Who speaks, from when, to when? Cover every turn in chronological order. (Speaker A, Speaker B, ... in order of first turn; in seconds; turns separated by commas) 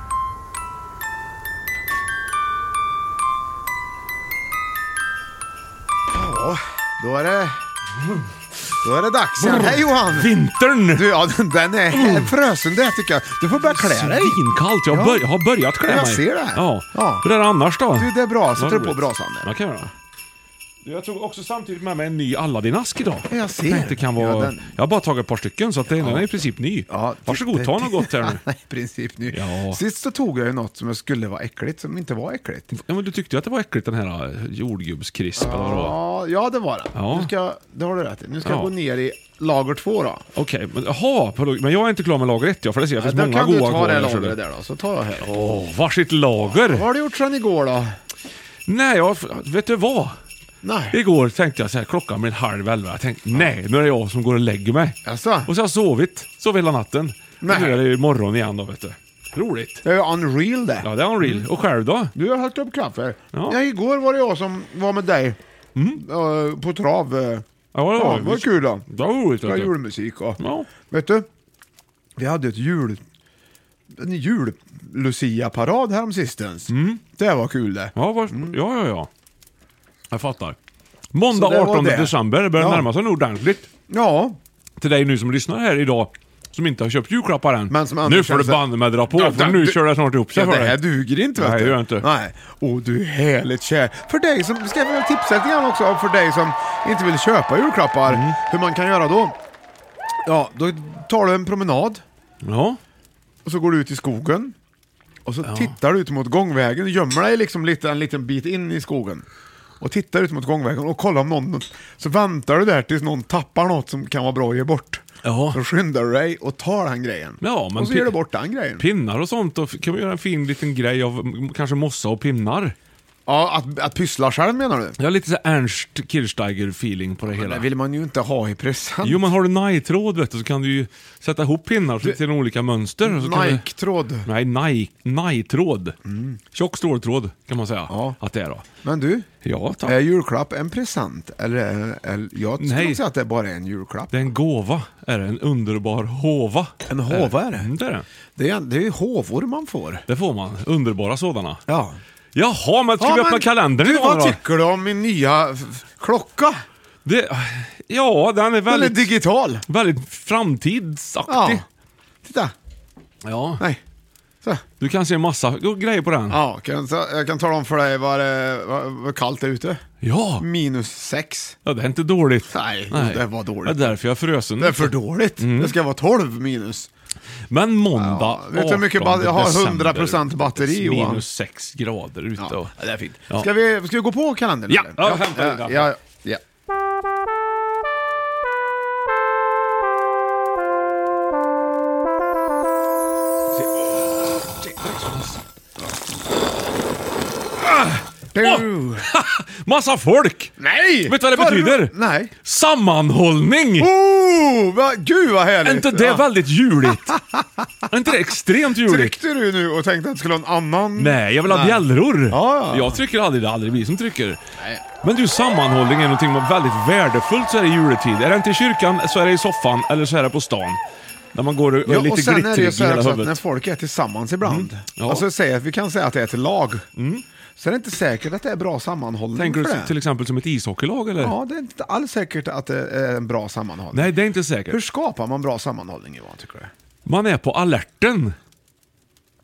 Speaker A: 6.1-7.6, Speaker A: 8.8-10.3, Speaker B: 9.4-11.1, Speaker A: 10.9-14.4, Speaker B: 11.9-12.3, Speaker B: 13.6-19.9, Speaker A: 14.9-15.2, Speaker A: 15.8-17.2, Speaker A: 17.9-19.5, Speaker B: 20.8-28.4, Speaker A: 23.3-24.7, Speaker A: 26.9-32.7, Speaker B: 29.3-29.8, Speaker B: 32.7-36.0, Speaker A: 35.4-40.2, Speaker B: 36.9-37.3, Speaker B: 38.4-38.7, Speaker B: 40.3-44.4, Speaker A: 43.0-45.3, Speaker B: 45.2-46.9, Speaker A: 46.6-47.9, Speaker B: 48.6-50.1, Speaker A: 50.6-51.0, Speaker B: 50.9-59.8, Speaker A: 55.0-55.5, Speaker A: 57.4-57.8, Speaker A: 59.8-61.4, Speaker B: 60.8-62.1, Speaker A: 62.1-65.4, Speaker B: 65.8-66.0, Speaker A: 66.0-68.8, Speaker B: 67.7-69.7, Speaker A: 69.4-71.3, Speaker B: 70.4-70.7, Speaker A: 72.2-73.0, Speaker A: 74.0-78.5, Speaker B: 76.7-77.0, Speaker B: 77.9-79.1, Speaker B: 80.1-80.6, Speaker B: 81.1-83.7, Speaker A: 81.3-82.9, Speaker A: 83.9-84.4, Speaker B: 84.8-90.8, Speaker A: 87.7-89.8, Speaker A: 90.3-99.3, Speaker B: 91.3-92.1, Speaker B: 98.1-98.4, Speaker A: 100.2-102.0, Speaker B: 102.4-102.8, Speaker A: 103.4-104.5, Speaker A: 105.2-109.2, Speaker B: 105.4-105.7, Speaker A: 109.8-118.8, Speaker B: 115.2-115.6, Speaker B: 117.4-118.2, Speaker B: 118.8-122.8, Speaker A: 123.2-125.0, Speaker B: 125.0-127.7, Speaker A: 127.3-129.3, Speaker B: 129.0-133.6, Speaker A: 133.0-134.3, Speaker B: 134.2-135.9, Speaker A: 136.0-136.4, Speaker B: 136.5-138.7, Speaker A: 137.9-138.2, Speaker A: 138.8-139.3, Speaker B: 139.4-140.0, Speaker A: 139.8-144.2, Speaker B: 142.6-143.0, Speaker B: 144.1-148.1, Speaker A: 146.9-147.7, Speaker A: 148.3-150.1, Speaker B: 150.1-151.6, Speaker A: 151.7-152.0, Speaker B: 152.3-154.4, Speaker A: 153.0-156.6, Speaker B: 157.0-159.1, Speaker A: 158.7-159.7, Speaker B: 159.7-161.6, Speaker A: 161.3-161.6, Speaker A: 162.2-162.5, Speaker B: 163.2-163.6, Speaker B: 164.8-166.4, Speaker A: 166.3-169.8, Speaker B: 170.0-170.4, Speaker A: 170.4-171.6, Speaker B: 171.7-175.7, Speaker A: 172.5-173.9, Speaker A: 174.6-176.9, Speaker B: 177.5-182.7, Speaker A: 177.9-181.2, Speaker A: 182.4-186.4, Speaker B: 184.7-185.9, Speaker B: 194.6-195.4, Speaker B: 197.6-200.5, Speaker A: 198.3-199.1, Speaker A: 200.6-202.3, Speaker B: 201.1-203.9, Speaker A: 203.8-206.2, Speaker B: 205.6-207.2, Speaker A: 206.9-207.6, Speaker B: 207.9-209.1, Speaker A: 208.8-213.0, Speaker B: 210.9-214.4, Speaker A: 214.6-214.8, Speaker B: 215.0-220.8, Speaker B: 221.3-223.4, Speaker A: 221.8-226.8, Speaker B: 224.4-225.2, Speaker B: 227.0-227.2, Speaker A: 227.6-229.9, Speaker B: 229.3-231.3, Speaker A: 231.2-234.1, Speaker B: 233.9-234.8, Speaker A: 234.7-236.7, Speaker B: 237.1-238.3